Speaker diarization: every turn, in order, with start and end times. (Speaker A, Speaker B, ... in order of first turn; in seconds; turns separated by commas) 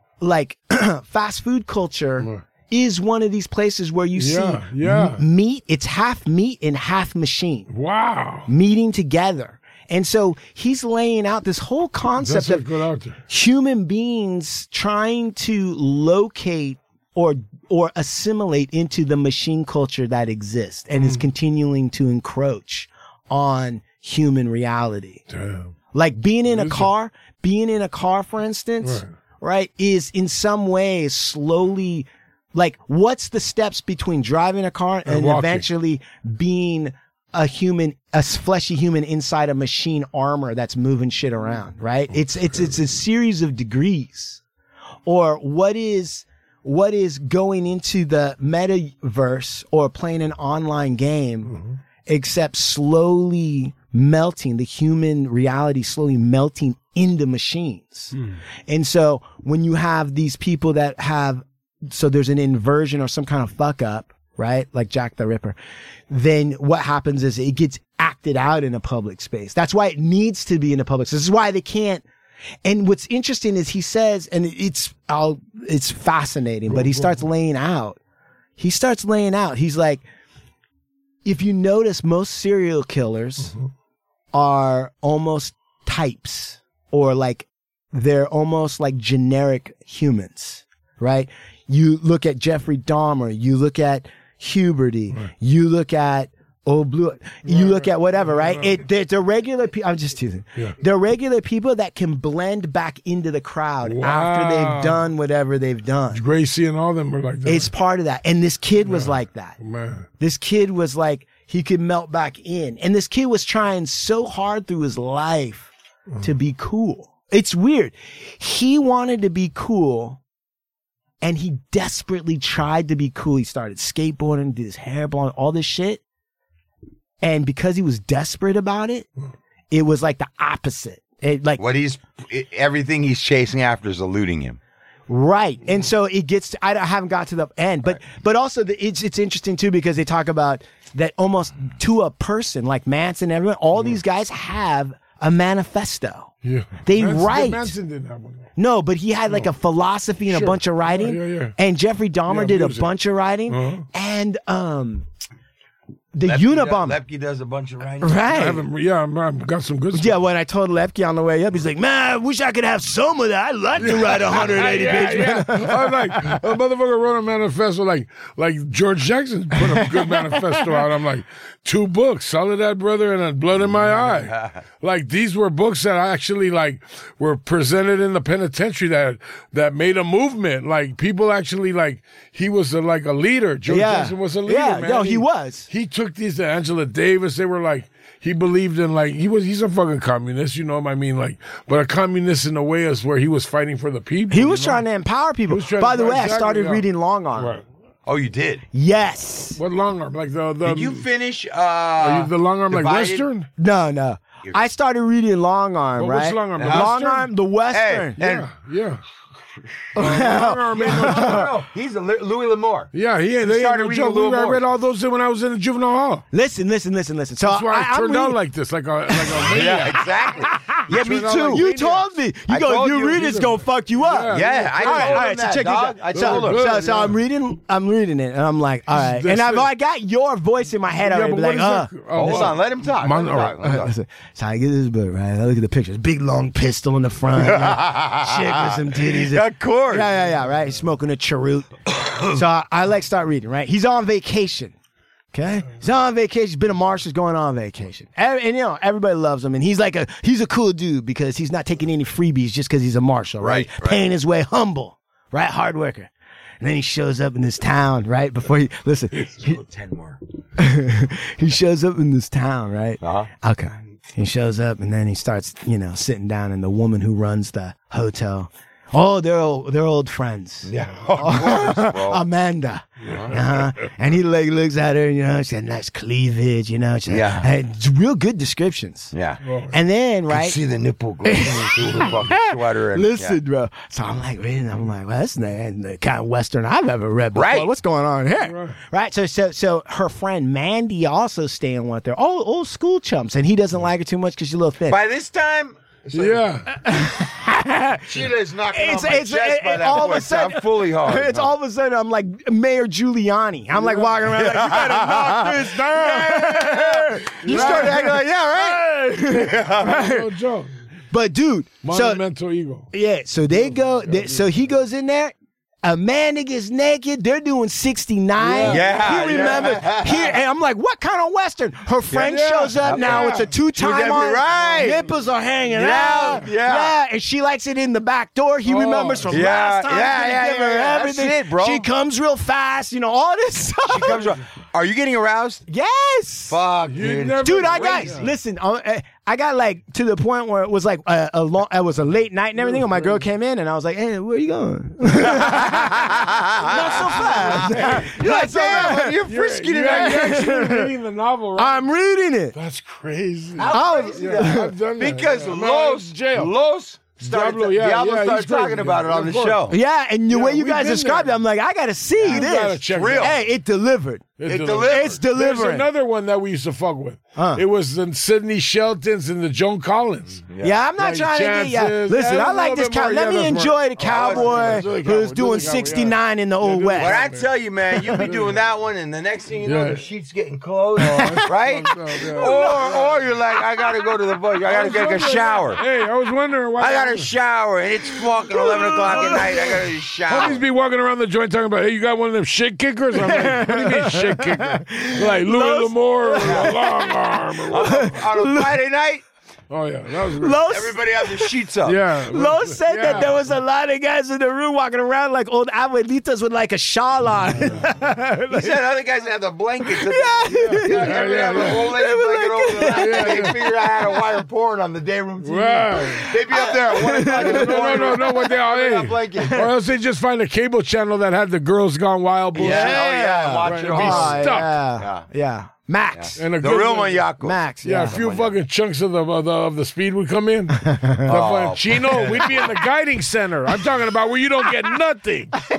Speaker A: 0.2-7.7, Speaker B: 4.2-5.2, Speaker B: 7.7-8.5, Speaker A: 8.5-12.7, Speaker B: 12.2-13.2, Speaker A: 13.3-25.2, Speaker B: 25.3-25.7, Speaker A: 25.9-44.4, Speaker B: 26.5-26.9, Speaker B: 28.8-29.1, Speaker B: 35.1-35.7, Speaker A: 45.1-58.1, Speaker B: 51.5-51.8, Speaker A: 58.7-65.6, Speaker A: 66.1-72.0, Speaker A: 72.7-78.0, Speaker B: 76.7-77.2, Speaker A: 78.6-80.0, Speaker A: 81.2-83.5, Speaker A: 84.3-106.2, Speaker B: 97.5-98.8, Speaker B: 103.8-105.1, Speaker B: 106.1-107.7, Speaker A: 107.5-109.6, Speaker B: 108.8-110.1, Speaker A: 110.2-115.7, Speaker A: 116.2-120.2, Speaker A: 121.2-126.0, Speaker A: 127.2-129.1, Speaker A: 129.7-131.6, Speaker C: 131.6-134.6, Speaker A: 135.1-146.3, Speaker B: 146.4-148.5, Speaker A: 146.8-147.7, Speaker A: 148.6-155.1, Speaker B: 150.3-151.6, Speaker B: 152.3-152.9, Speaker B: 153.5-153.9, Speaker A: 156.1-157.0, Speaker C: 156.2-158.4, Speaker A: 158.0-158.6, Speaker B: 158.3-160.2, Speaker A: 159.9-166.4, Speaker B: 163.8-194.8, Speaker A: 169.6-170.7, Speaker C: 173.7-174.6, Speaker A: 183.7-185.7, Speaker A: 194.3-197.6, Speaker B: 195.5-196.8, Speaker B: 197.4-197.6, Speaker C: 198.1-198.7, Speaker A: 198.7-199.6, Speaker B: 199.6-201.1, Speaker C: 200.6-203.3, Speaker B: 202.0-203.5, Speaker A: 203.6-208.2, Speaker B: 206.0-207.3, Speaker C: 206.6-206.9, Speaker C: 207.7-208.5, Speaker B: 208.2-209.0, Speaker A: 209.9-211.5, Speaker B: 209.9-211.5, Speaker C: 210.7-214.6, Speaker B: 212.9-216.2, Speaker A: 216.3-218.4, Speaker B: 217.4-220.1, Speaker A: 219.1-220.8, Speaker C: 219.5-221.7, Speaker B: 220.8-222.1, Speaker A: 221.5-232.5, Speaker C: 222.5-223.2, Speaker B: 223.1-225.4, Speaker C: 224.3-226.7, Speaker B: 226.1-227.2, Speaker B: 228.9-229.7, Speaker B: 231.0-233.6, Speaker C: 232.1-233.9, Speaker A: 233.6-244.7, Speaker C: 237.4-240.1, Speaker C: 242.0-242.2, Speaker A: 245.3-256.1, Speaker C: 253.4-254.0, Speaker A: 256.6-259.6, Speaker C: 259.2-260.2, Speaker A: 260.6-279.1, Speaker C: 263.0-263.3, Speaker C: 270.6-272.2, Speaker B: 273.1-273.6, Speaker C: 273.1-273.4, Speaker C: 277.1-277.5, Speaker C: 279.1-279.4, Speaker B: 279.4-279.8, Speaker A: 279.7-280.6, Speaker C: 280.3-283.4, Speaker A: 281.2-295.0, Speaker C: 287.3-287.7, Speaker B: 288.4-288.8, Speaker C: 294.9-296.5, Speaker B: 296.1-296.7, Speaker A: 296.7-310.3, Speaker C: 298.1-301.5, Speaker B: 303.8-304.1, Speaker C: 304.3-310.0, Speaker B: 307.4-308.2, Speaker B: 309.4-310.7, Speaker A: 311.1-312.2, Speaker B: 311.8-312.9, Speaker A: 312.9-334.2, Speaker B: 313.6-314.5, Speaker B: 318.4-319.7, Speaker C: 318.6-320.4, Speaker B: 322.1-323.5, Speaker C: 322.8-325.0, Speaker B: 324.5-325.1, Speaker C: 325.7-327.0, Speaker B: 328.7-329.4, Speaker C: 329.3-331.9, Speaker C: 333.9-335.6, Speaker A: 335.7-336.6, Speaker C: 336.5-338.2, Speaker B: 336.9-338.3, Speaker A: 337.4-349.2, Speaker B: 342.6-343.2, Speaker C: 345.2-350.4, Speaker B: 347.0-351.9, Speaker A: 349.9-350.9, Speaker A: 351.6-352.6, Speaker B: 352.5-356.5, Speaker C: 353.6-359.8, Speaker A: 353.7-354.8, Speaker B: 357.2-359.7, Speaker A: 359.7-365.9, Speaker B: 360.3-361.4, Speaker C: 362.2-363.4, Speaker B: 362.2-363.4, Speaker B: 364.4-370.5, Speaker C: 364.4-365.2, Speaker A: 367.4-367.6, Speaker C: 370.5-370.8, Speaker A: 370.6-377.2, Speaker B: 371.0-377.6, Speaker C: 374.0-374.9, Speaker C: 377.0-385.8, Speaker A: 378.0-378.2, Speaker B: 378.2-378.6, Speaker B: 379.6-380.1, Speaker B: 381.0-383.1, Speaker A: 381.1-381.5, Speaker A: 382.2-383.0, Speaker B: 384.6-387.3, Speaker C: 386.8-390.6, Speaker A: 388.5-389.5, Speaker B: 388.6-398.1, Speaker A: 393.1-398.8, Speaker C: 396.4-396.8, Speaker C: 397.7-399.2, Speaker B: 399.7-400.6, Speaker A: 400.3-401.6, Speaker C: 400.7-402.0, Speaker B: 401.8-403.4, Speaker A: 402.3-408.9, Speaker C: 408.5-419.7, Speaker A: 409.9-413.7, Speaker B: 410.5-411.9, Speaker B: 412.8-413.6, Speaker B: 415.4-416.3, Speaker A: 416.0-418.4, Speaker B: 417.2-423.1, Speaker C: 422.6-425.3, Speaker A: 422.6-426.4, Speaker B: 423.6-424.8, Speaker C: 426.1-428.6, Speaker B: 426.4-427.3, Speaker A: 427.4-428.2, Speaker B: 427.8-435.6, Speaker A: 430.9-431.3, Speaker C: 431.3-432.8